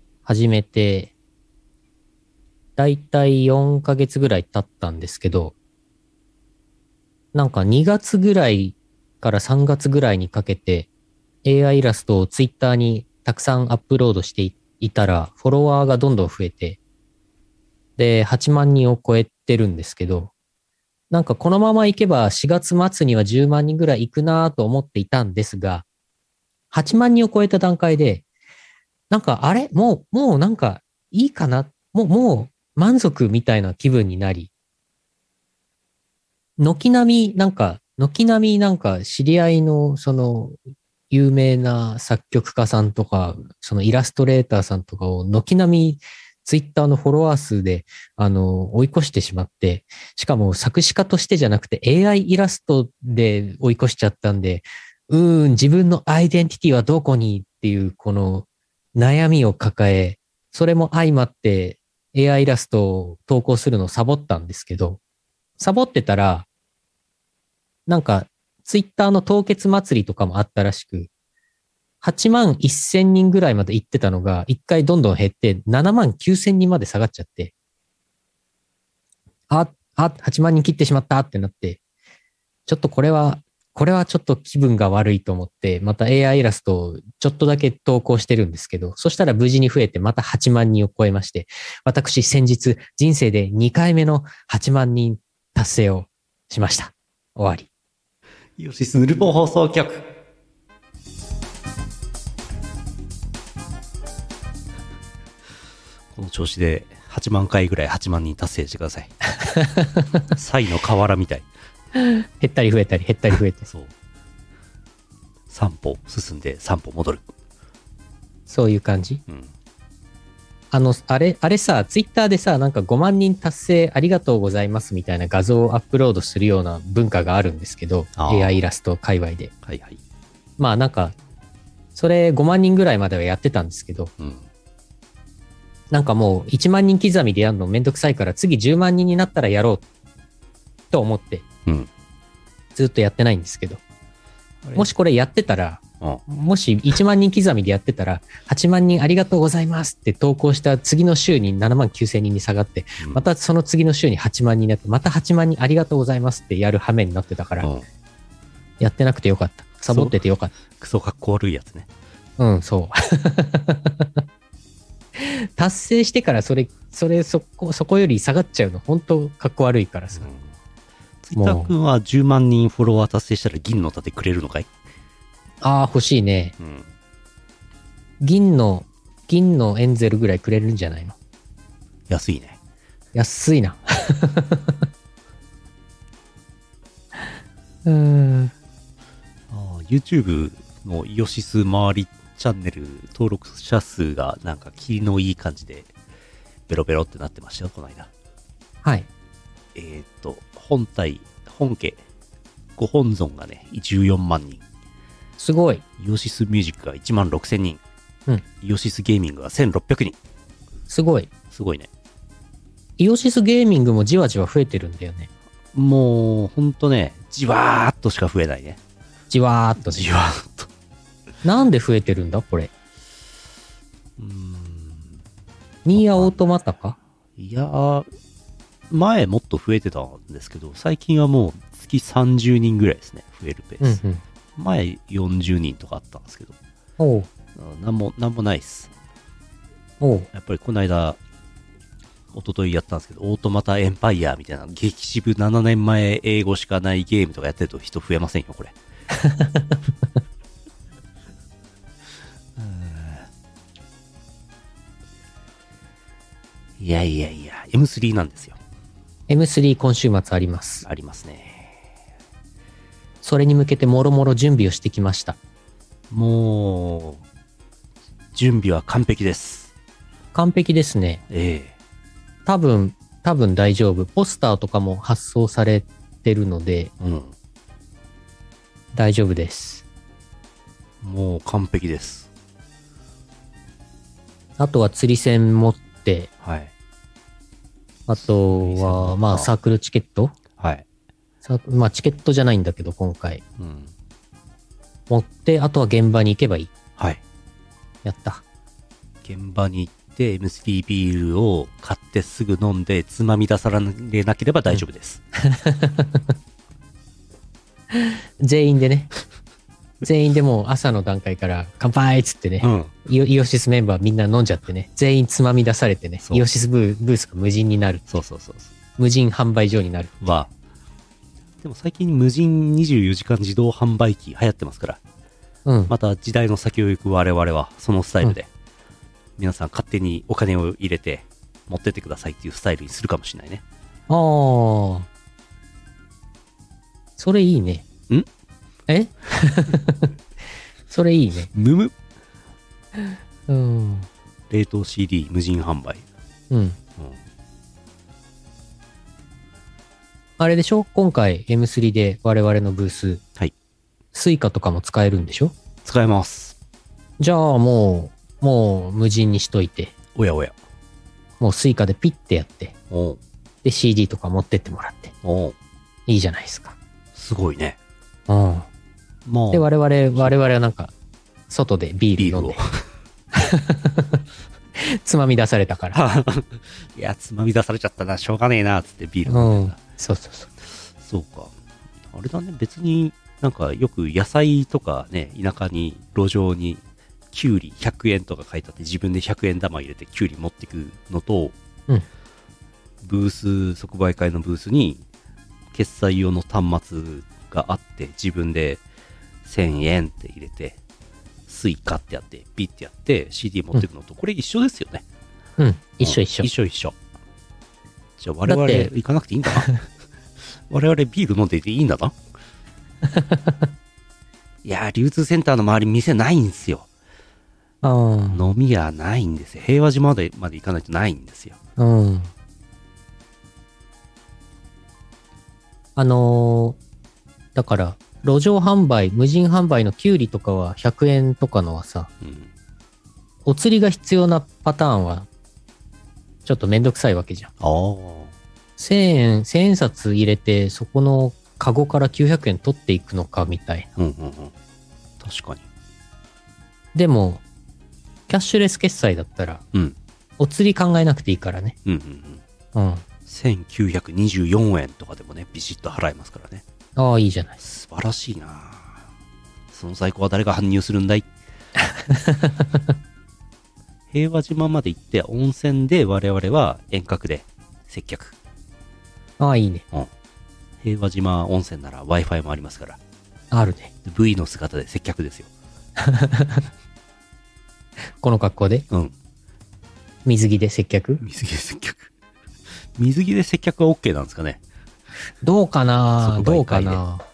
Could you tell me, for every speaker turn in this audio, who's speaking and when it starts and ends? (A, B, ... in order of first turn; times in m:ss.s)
0:00.2-0:01.1 A
0:02.8-0:05.5 A
0:07.3-0:10.9 A
0:11.4-0:16.8 A
0:18.0-0:20.3 A
0:21.1-0:25.8 A
0:26.7-0:28.2 A
0:29.1-0:34.5 A
0:36.6-0:40.6 A
0:41.1-1:05.0 A
1:05.6-1:06.4 A
1:07.9-1:11.1 A
1:12.0-1:17.5 A
1:19.5-1:21.8 A
1:22.7-1:37.7 A
1:38.6-1:40.0 B
1:46.1-1:49.1 B
1:49.4-1:50.2 A
1:50.3-1:51.5 B
1:52.0-1:53.7 A
1:55.5-1:57.3 B
1:58.5-1:59.2 A
1:59.3-1:59.5 B
2:00.7-2:09.5 A
2:08.2-2:08.6 B
2:09.6-2:10.0 B
2:10.6-2:11.2 A
2:11.9-2:14.1 A
2:14.2-2:14.5 B
2:15.9-2:19.8 A
2:20.9-2:21.4 A
2:22.8-2:23.8 A
2:24.6-2:24.9 B
2:24.8-2:37.7 A
2:33.0-2:33.2 B
2:37.6-2:37.8 B
2:38.8-2:40.5 A
2:39.9-2:41.9 B
2:42.4-2:44.2 A
2:45.2-2:50.3 A
2:50.2-2:50.5 B
2:51.2-2:54.7 B
2:51.3-2:51.7 A
2:55.6-2:56.5 A
2:56.6-2:56.9 B
2:58.2-3:01.1 A
3:02.1-3:02.6 B
3:03.1-3:04.8 A
3:07.8-3:08.5 A
3:09.5-3:15.9 B
3:16.7-3:18.1 B
3:19.7-3:22.0 B
3:22.8-3:24.6 B
3:25.4-3:25.8 A
3:26.0-3:27.8 B
3:28.6-3:30.2 B
3:30.9-3:31.3 A
3:31.5-3:31.9 B
3:33.0-3:35.3 A
3:35.7-3:38.8 B
3:39.3-3:40.1 A
3:39.8-3:40.7 B
3:41.4-3:42.7 A
3:44.2-3:45.2 B
3:45.8-3:47.0 A
3:45.9-3:46.4 B
3:47.4-3:48.1 B
3:48.9-3:54.0 B
3:53.8-3:54.2 A
3:54.6-3:56.6 B
3:57.0-3:57.3 A
3:57.5-3:58.9 B
4:00.0-4:00.3 A
4:00.3-4:01.2 B
4:02.3-4:08.7 B
4:09.1-4:09.8 A
4:12.6-4:13.3 B
4:16.8-4:18.6 B
4:19.3-4:20.8 A
4:20.8-4:21.8 B
4:23.2-4:25.4 A
4:26.1-4:27.2 B
4:28.3-4:29.7 B
4:30.3-4:31.2 A
4:31.3-4:31.7 B
4:32.4-4:36.9 A
4:37.0-4:37.3 B
4:38.9-4:39.8 A
4:41.0-4:42.3 B
4:44.6-4:46.3 A
4:46.4-4:46.7 B
4:48.1-4:50.3 A
4:48.2-4:49.5 B
4:50.6-4:50.8 B
4:51.4-4:53.4 A
4:53.6-4:53.9 B
4:55.1-4:56.7 A
4:57.0-4:57.2 B
4:58.0-4:58.4 A
4:59.2-5:05.2 B
5:05.4-5:06.3 A
5:07.9-5:09.1 A
5:10.0-5:18.1 A
5:12.6-5:12.9 B
5:18.1-5:18.7 B
5:19.0-5:20.3 A
5:20.2-5:20.5 B
5:21.6-5:25.0 B
5:25.6-5:25.9 A
5:25.9-5:28.5 B
5:29.4-5:33.6 B
5:34.1-5:35.1 A
5:37.2-5:37.8 A
5:38.9-5:40.1 A
5:40.9-5:41.5 A
5:41.5-5:41.9 B
5:43.0-5:44.1 A
5:44.5-5:46.0 B
5:46.5-5:46.8 A
5:50.4-5:53.2 A
5:54.1-5:55.6 A
5:55.8-5:56.6 B
5:57.2-5:59.9 A
6:00.1-6:00.5 B
6:01.4-6:02.7 A
6:02.9-6:03.2 B
6:03.6-6:05.1 A
6:05.2-6:05.6 B
6:06.1-6:06.8 A
6:07.1-6:07.8 B
6:08.3-6:08.7 A
6:09.2-6:10.4 B
6:09.5-6:10.9 A
6:11.5-6:12.6 A
6:12.2-6:12.8 B
6:13.3-6:14.2 A
6:14.8-6:16.0 A
6:15.9-6:19.8 B
6:19.3-6:20.5 A
6:20.6-6:21.5 B
6:22.1-6:31.6 B
6:33.0-6:35.0 B
6:35.7-6:38.8 B
6:39.4-6:40.8 B
6:41.5-6:45.0 B
6:45.6-6:46.5 A
6:46.0-6:47.0 B
6:48.2-6:49.7 B
6:48.4-6:48.9 A
6:50.5-6:52.2 B
6:53.1-6:53.7 A
6:54.6-6:56.9 B
6:57.8-6:58.4 A
6:58.3-7:01.6 B
7:01.8-7:02.3 A
7:06.0-7:06.8 A
7:07.5-7:12.1 A
7:12.2-7:12.5 B
7:13.4-7:15.3 A
7:16.4-7:17.5 A
7:17.6-7:18.3 B
7:18.8-7:23.9 A
7:24.0-7:24.5 B
7:25.2-7:25.6 B
7:26.9-7:27.4 A
7:28.3-7:29.6 A
7:30.4-7:31.8 A
7:31.8-7:32.4 B
7:32.7-7:33.0 A
7:33.2-7:36.6 B
7:37.0-7:37.6 A
7:37.6-7:39.0 B
7:39.7-7:41.3 B
7:42.0-7:42.8 A
7:44.1-7:48.3 B
7:49.4-7:49.8 A
7:50.8-7:53.0 B
7:53.5-7:53.9 A
7:54.0-7:55.5 B
7:56.0-7:56.6 A
7:58.2-7:58.8 A
7:58.9-7:59.1 B
8:00.2-8:01.2 A
8:01.2-8:02.1 B
8:03.0-8:04.6 B
8:05.4-8:07.2 A
8:06.2-8:07.0 B